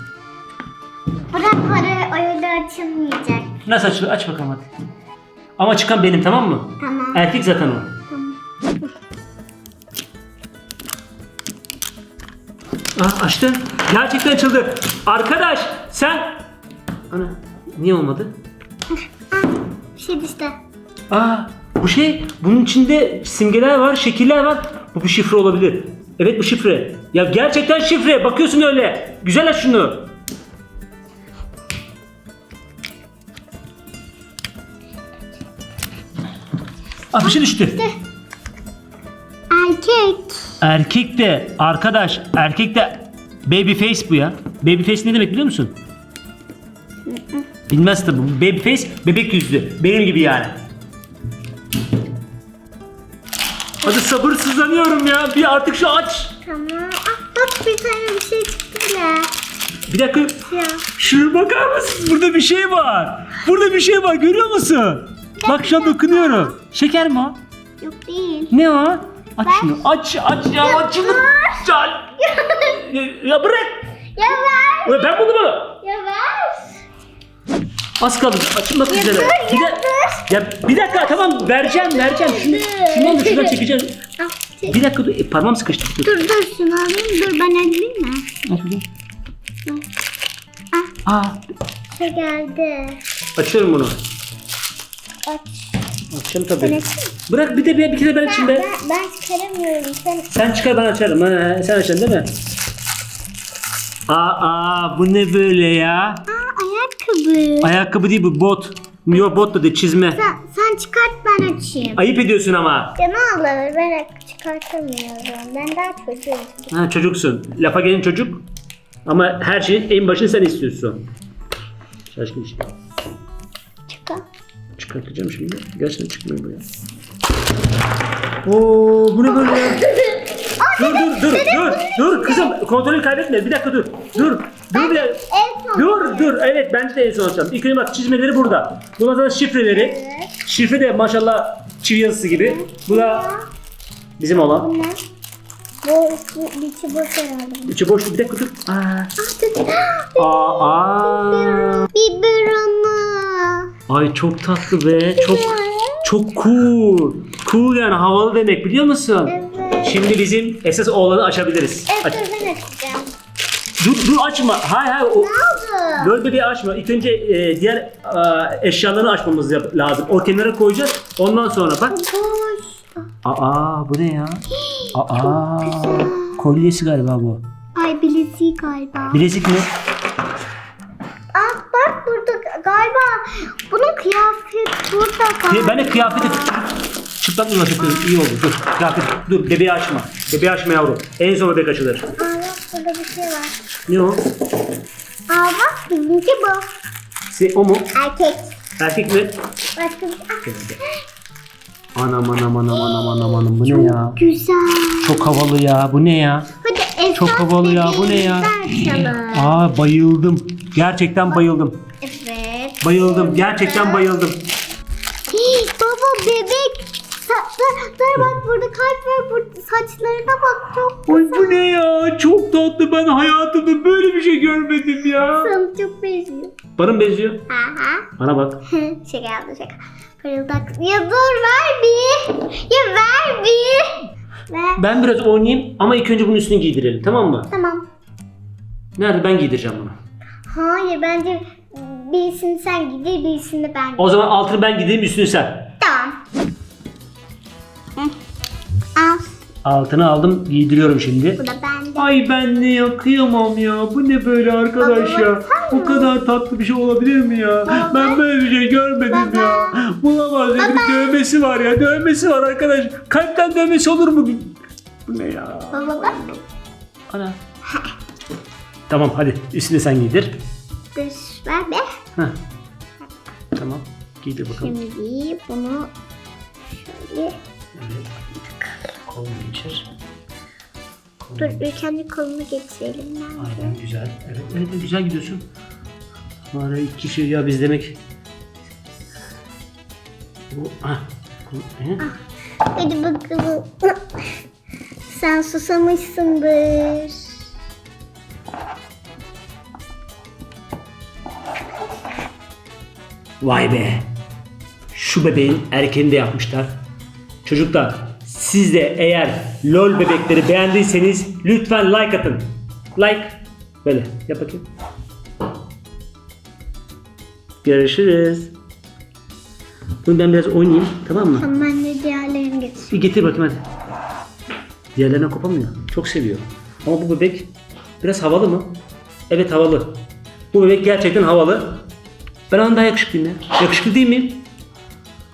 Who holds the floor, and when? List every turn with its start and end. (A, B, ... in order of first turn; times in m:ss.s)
0:01.3-0:03.5 A
0:03.6-0:04.7 B
0:05.6-0:07.9 B
0:06.8-0:07.2 A
0:08.1-0:08.4 A
0:13.0-0:16.4 B
0:17.1-0:18.3 B
0:19.3-0:20.5 A
0:21.1-0:30.1 B
0:37.1-0:37.8 B
0:37.2-0:37.9 A
0:39.5-0:40.5 A
0:40.6-0:45.8 B
0:47.1-0:47.5 A
0:47.7-0:50.6 B
0:53.8-0:56.4 B
0:56.4-0:59.3 A
0:59.9-1:00.4 B
1:00.4-1:00.8 A
1:00.9-1:07.4 B
1:05.4-1:06.6 A
1:07.8-1:08.5 A
1:08.5-1:13.9 B
1:09.4-1:09.8 A
1:10.6-1:12.8 A
1:14.1-1:15.2 A
1:14.8-1:15.8 B
1:15.8-1:16.8 A
1:18.0-1:24.0 B
1:18.9-1:23.6 A
1:24.2-1:24.8 A
1:24.6-1:26.1 B
1:26.0-1:28.4 A
1:28.4-1:28.8 B
1:31.0-1:31.4 B
1:31.9-1:33.0 A
1:33.4-1:34.0 B
1:35.2-1:35.8 A
1:36.1-1:38.7 B
1:36.6-1:37.1 A
1:38.2-1:40.3 A
1:40.3-1:42.3 B
1:44.1-1:46.2 B
1:46.3-1:47.7 A
1:47.6-1:50.2 B
1:50.1-1:52.0 A
1:52.0-1:52.9 B
1:53.0-1:56.7 A
1:56.7-1:58.4 B
1:59.0-2:01.0 B
2:02.1-2:02.7 B
2:03.9-2:04.2 A
2:04.8-2:06.6 B
2:08.4-2:09.8 B
2:09.3-2:12.5 A
2:10.8-2:15.2 B
2:14.2-2:16.4 A
2:15.7-2:23.3 B
2:19.7-2:20.3 A
2:22.3-2:23.4 A
2:24.2-2:24.7 B
2:24.5-2:25.0 A
2:25.8-2:27.8 A
2:27.7-2:29.1 B
2:29.2-2:33.7 A
2:30.2-2:31.9 B
2:33.9-2:42.2 B
2:35.2-2:36.1 A
2:39.2-2:40.0 A
2:41.9-2:43.1 A
2:43.8-2:45.3 B
2:45.2-2:46.1 A
2:46.0-2:52.0 B
2:51.9-2:52.9 A
2:53.2-2:57.4 B
2:54.6-2:56.4 A
2:57.8-2:59.2 A
2:59.1-2:59.7 B
3:01.3-3:06.5 A
3:05.5-3:12.1 B
3:07.8-3:08.1 A
3:12.2-3:13.6 A
3:13.9-3:14.2 B
3:15.3-3:16.7 A
3:17.3-3:17.9 B
3:17.9-3:18.5 A
3:18.8-3:19.4 B
3:19.8-3:21.0 A
3:20.4-3:20.8 B
3:21.9-3:24.2 B
3:22.7-3:25.4 A
3:25.0-3:26.5 B
3:26.6-3:29.6 A
3:27.1-3:31.8 B
3:32.0-3:34.0 A
3:32.8-3:34.4 B
3:35.3-3:41.6 A
3:41.1-3:45.5 B
3:45.2-3:46.5 A
3:46.8-3:47.4 B
3:47.5-3:48.1 A
3:48.2-3:48.6 B
3:48.6-3:54.8 A
3:54.8-3:57.5 B
3:57.5-3:57.8 A
3:59.0-4:00.0 B
4:00.5-4:04.2 A
4:04.0-4:05.7 B
4:05.8-4:06.2 A
4:08.9-4:09.3 A
4:09.6-4:11.4 B
4:11.4-4:12.1 A
4:12.0-4:24.6 B
4:14.8-4:16.1 A
4:17.6-4:18.2 A
4:19.1-4:19.8 A
4:20.6-4:21.2 A
4:25.1-4:26.3 B
4:25.7-4:26.4 A
4:27.1-4:27.4 B
4:28.9-4:30.4 B
4:30.9-4:31.8 A
4:33.5-4:34.8 B
4:34.4-4:35.9 A
4:36.7-4:37.3 A
4:37.7-4:38.1 B
4:39.0-4:39.9 B
4:41.2-4:41.6 B
4:41.4-4:43.7 A
4:43.4-4:45.5 B
4:46.5-4:48.0 B
4:50.5-4:52.0 B
4:52.7-4:54.0 A
4:55.0-4:57.4 A
5:03.4-5:04.1 B
5:04.9-5:06.7 B
5:07.4-5:14.6 B
5:17.6-5:18.5 B
5:20.0-5:21.5 B
5:21.3-5:22.9 A
5:22.9-5:23.6 B
5:24.9-5:27.5 B
5:28.0-5:28.8 B
5:29.3-5:30.0 B
5:30.5-5:31.8 B
5:32.5-5:34.4 B